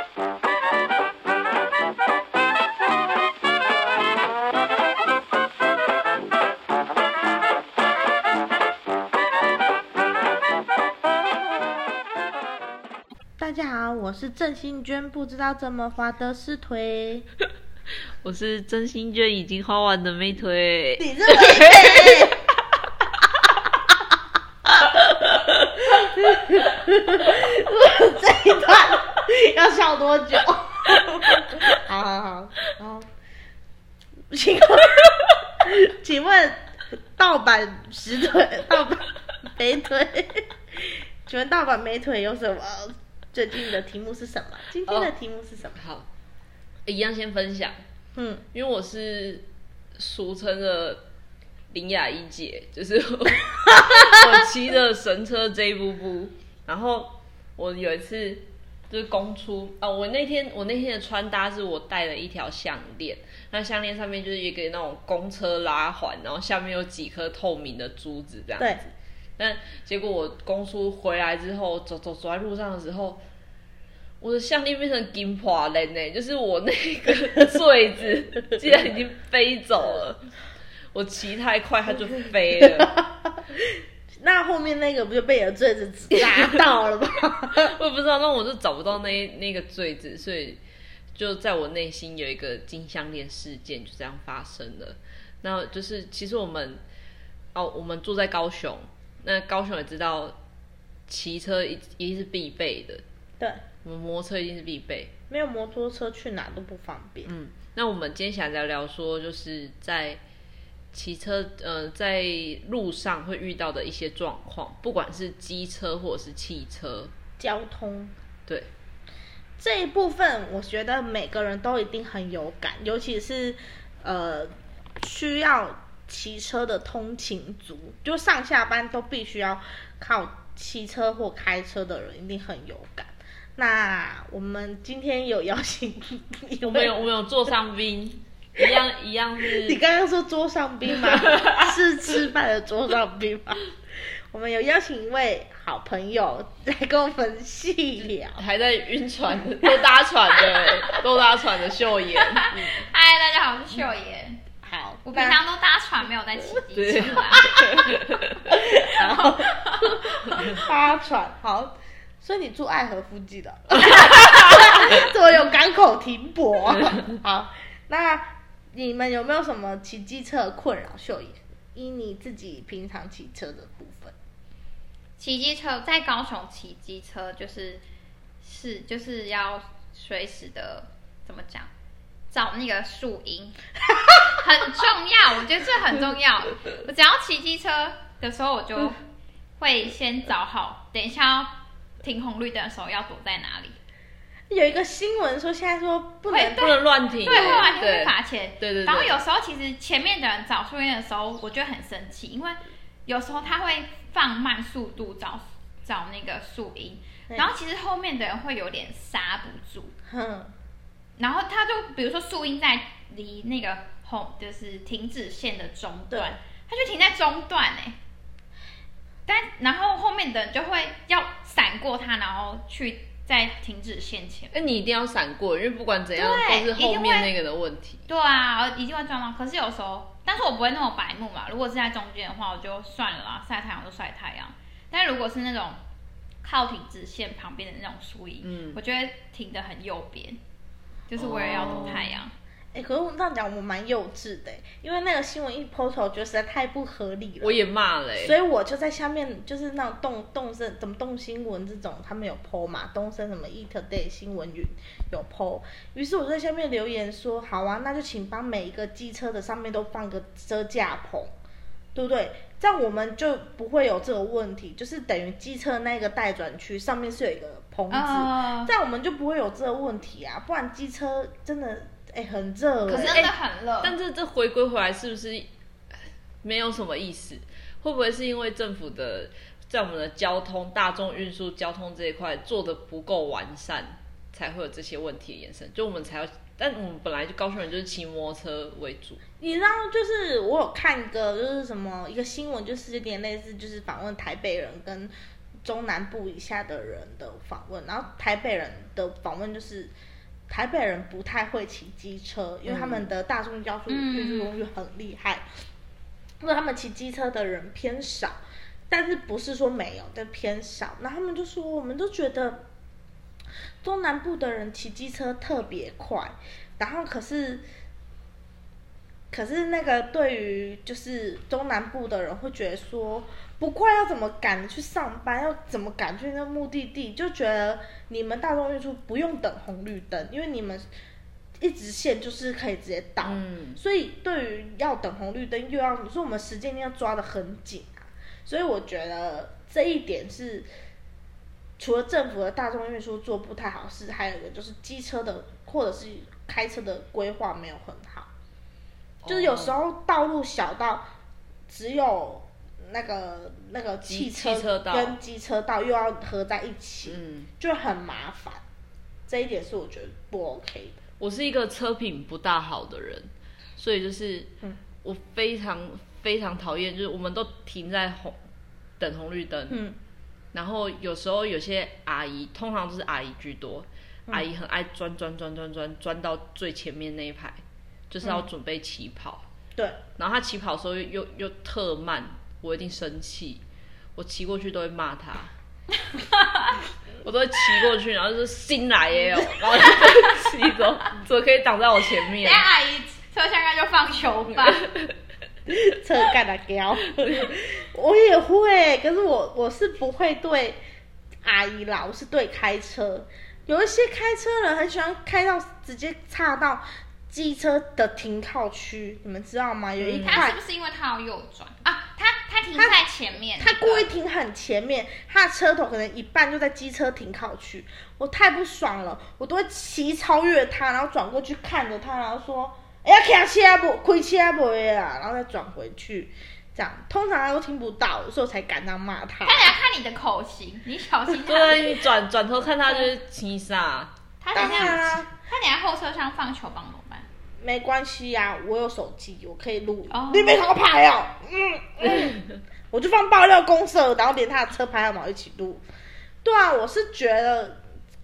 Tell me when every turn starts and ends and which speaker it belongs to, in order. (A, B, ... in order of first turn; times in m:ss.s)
0:13.4-0:17.3 A
0:18.2-0:22.3 B
0:21.0-0:22.4 A
0:25.8-0:33.1 A
0:31.4-0:31.7 B
0:34.3-0:45.8 A
0:44.9-0:45.1 B
0:45.8-0:46.1 B
0:46.8-0:47.7 B
0:48.2-0:48.4 A
0:48.5-0:51.0 B
0:51.7-1:08.8 B
1:09.4-1:13.2 B
1:14.2-1:20.3 B
1:20.9-1:22.9 B
1:22.7-1:27.8 A
1:26.2-1:26.5 B
1:27.5-1:30.6 B
1:31.1-1:36.8 B
1:37.5-1:40.4 B
1:41.1-1:43.0 B
1:43.8-1:45.1 B
1:45.3-1:47.3 A
1:47.2-1:50.2 B
1:50.9-1:57.1 B
1:57.4-1:58.1 A
1:59.6-2:17.0 A
2:16.6-2:19.8 B
2:19.6-2:23.7 A
2:21.2-2:21.5 B
2:24.3-2:28.4 A
2:28.0-2:32.8 B
2:32.1-2:34.4 C
2:34.6-2:35.4 A
2:35.0-2:37.5 C
2:36.7-2:39.4 B
2:37.3-2:37.9 A
2:38.5-2:54.1 A
2:39.6-2:39.9 C
2:40.3-2:40.6 B
2:43.8-2:45.0 B
2:55.2-2:57.8 C
2:58.4-3:01.7 C
3:02.3-3:03.6 C
3:04.2-3:09.0 C
3:09.6-3:13.8 C
3:14.5-3:16.8 A
3:16.3-3:29.9 C
3:16.6-3:19.2 B
3:30.1-3:30.5 A
3:31.2-3:38.0 C
3:36.1-3:36.4 A
3:39.2-3:44.6 C
3:44.5-3:48.0 B
3:46.1-3:47.3 C
3:48.1-3:55.8 C
3:56.4-4:00.4 C
3:58.4-3:58.8 B
4:01.1-4:02.3 C
4:01.2-4:02.1 B
4:02.7-4:07.6 A
4:07.4-4:08.4 B
4:08.2-4:21.3 A
4:21.9-4:33.2 A
4:27.9-4:28.7 C
4:32.9-4:35.5 B
4:32.9-4:34.0 C
4:36.4-4:49.2 B
4:49.4-4:55.1 A
4:55.6-4:59.9 A
5:00.5-5:05.4 A
5:02.6-5:03.1 B
5:03.9-5:04.5 C
5:06.4-5:08.3 A
5:08.9-5:12.6 A
5:13.8-5:17.6 A
5:19.3-5:30.8 A
5:31.6-5:40.7 A
5:33.2-5:33.8 B
5:41.8-5:48.3 A
5:49.2-5:49.8 B
5:49.3-5:51.1 A
5:51.7-5:58.6 A
5:54.0-5:55.2 B
5:57.1-5:57.5 B
5:59.3-6:01.0 A
6:01.2-6:04.5 B
6:05.0-6:08.4 B
6:09.0-6:09.8 B
6:09.7-6:10.0 A
6:10.5-6:19.4 B
6:20.2-6:23.6 B
6:24.2-6:25.5 B
6:26.0-6:26.8 C
6:27.2-6:32.6 B
6:29.8-6:30.3 C
6:32.4-6:34.9 C
6:35.7-6:40.8 A
6:41.4-6:50.6 A
6:50.0-6:50.4 B
6:50.3-6:54.0 C
6:52.8-6:53.0 A
6:53.6-7:09.7 A
7:09.4-7:12.0 C
7:11.3-7:15.0 B
7:14.4-7:17.3 C
7:14.5-7:15.3 A
7:17.6-7:25.8 A
7:20.1-7:20.6 C
7:26.4-7:27.8 A